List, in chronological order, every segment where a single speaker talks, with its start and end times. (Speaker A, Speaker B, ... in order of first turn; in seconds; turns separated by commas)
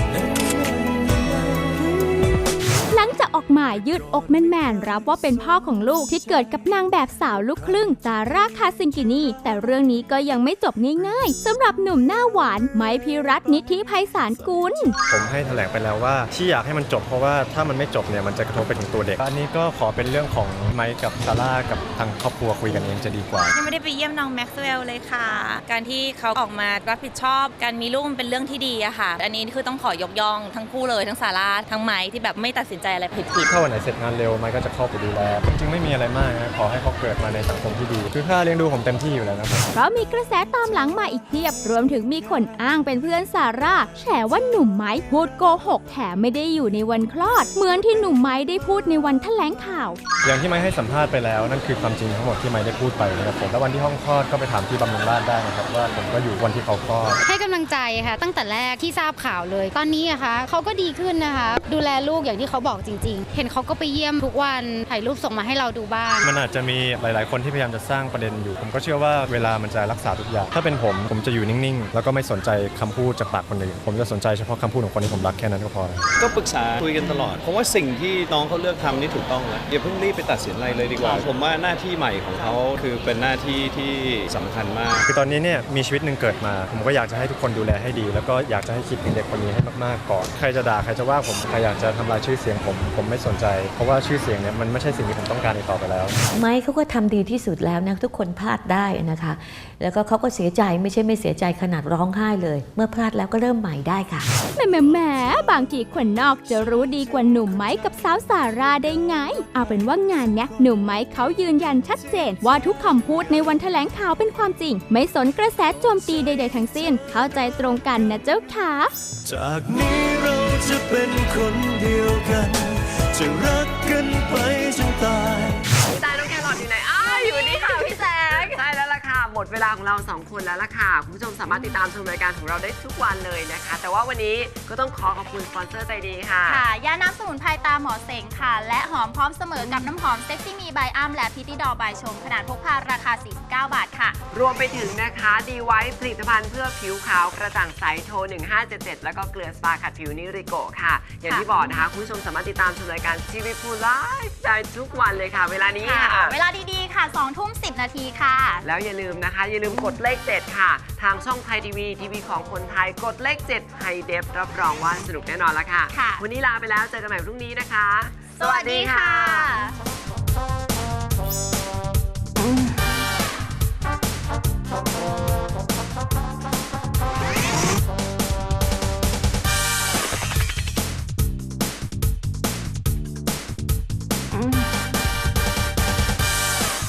Speaker A: 2.9-14.9, Speaker B: 15.1-23.5, Speaker C: 23.5-33.5, Speaker B: 33.4-39.7, Speaker A: 39.7-50.0, Speaker B: 50.2-57.2, Speaker D: 57.2-66.3, Speaker B: 66.2-76.0, Speaker E: 76.2-85.0, Speaker B: 85.0-96.2, Speaker F: 96.3-104.3, Speaker A: 104.5-118.9, Speaker G: 119.3-125.6, Speaker H: 125.8-136.6, Speaker I: 127.0-128.6, Speaker I: 136.4-144.2, Speaker H: 139.6-139.9, Speaker H: 144.3-156.4, Speaker I: 151.2-151.8, Speaker I: 155.8-158.7, Speaker H: 158.6-169.6, Speaker I: 165.9-166.2, Speaker I: 168.3-169.8